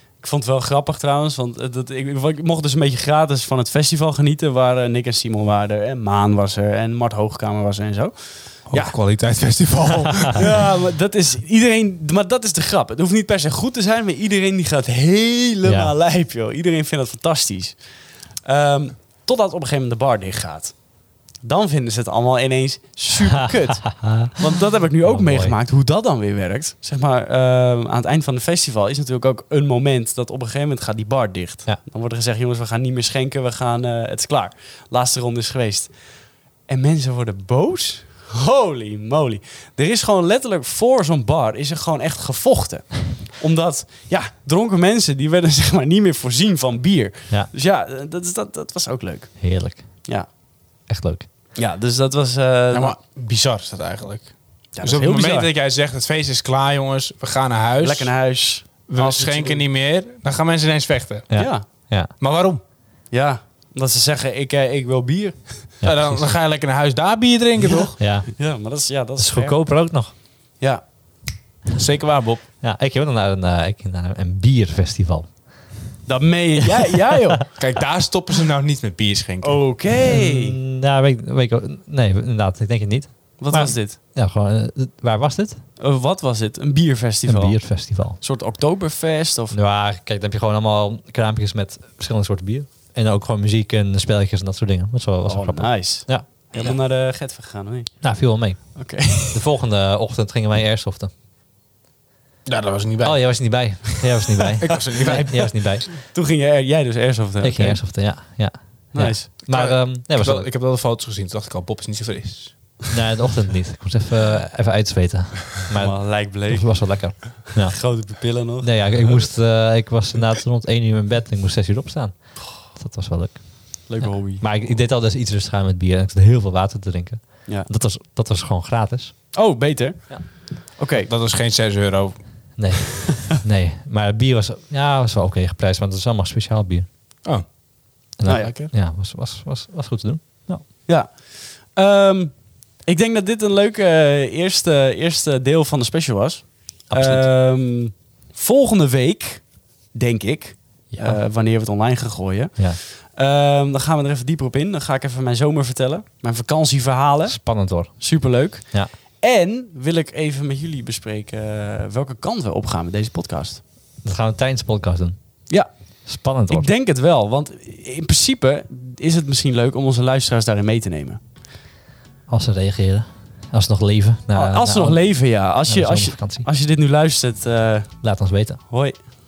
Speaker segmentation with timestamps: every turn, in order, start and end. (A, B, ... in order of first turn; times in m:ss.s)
0:00.2-0:09.0 A
0:08.7-0:10.6 B
0:10.4-0:17.8 A
0:15.6-0:15.9 C
0:18.4-0:20.8 A
0:21.4-0:35.9 A
0:23.9-0:24.4 C
0:25.0-0:25.5 C
0:36.7-0:50.3 A
0:49.4-0:50.0 C
0:50.9-0:51.3 C
0:51.6-0:53.0 A
0:52.7-0:58.1 B
0:54.8-0:55.5 A
0:57.8-0:59.6 A
0:58.9-1:02.6 B
1:01.3-1:02.1 C
1:01.4-1:01.7 A
1:03.1-1:05.7 A
1:05.8-1:06.3 C
1:05.8-1:08.0 B
1:08.0-1:08.4 C
1:08.3-1:09.6 A
1:09.2-1:10.1 C
1:11.7-1:12.4 B
1:12.6-1:15.3 C
1:16.1-1:17.5 A
1:17.6-1:19.6 B
1:19.4-1:20.6 A
1:20.0-1:25.6 C
1:23.4-1:24.0 A
1:25.8-1:29.6 A
1:27.3-1:28.2 C
1:29.5-1:36.8 C
1:35.2-1:38.1 A
1:38.0-1:41.1 C
1:38.7-1:39.4 A
1:42.5-1:44.1 B
1:43.0-1:45.9 C
1:44.6-1:45.5 B
1:45.0-1:47.8 A
1:47.4-1:50.5 C
1:48.9-1:49.3 A
1:49.4-1:52.9 B
1:52.9-2:09.4 C
1:55.8-1:59.0 A
2:03.9-2:04.4 A
2:09.3-2:11.1 A
2:11.0-2:12.2 B
2:12.6-2:16.9 C
2:18.2-2:20.7 C
2:18.3-2:18.5 A
2:18.3-2:18.7 B
2:20.9-2:43.6 A
2:26.9-2:27.3 C
2:30.9-2:31.2 C
2:37.3-2:38.2 C
2:44.0-2:45.2 C
2:46.1-2:46.7 C
2:46.5-2:51.2 A
2:52.3-2:56.5 C
2:54.3-2:58.0 A
2:58.0-2:58.6 C
2:58.7-2:59.0 A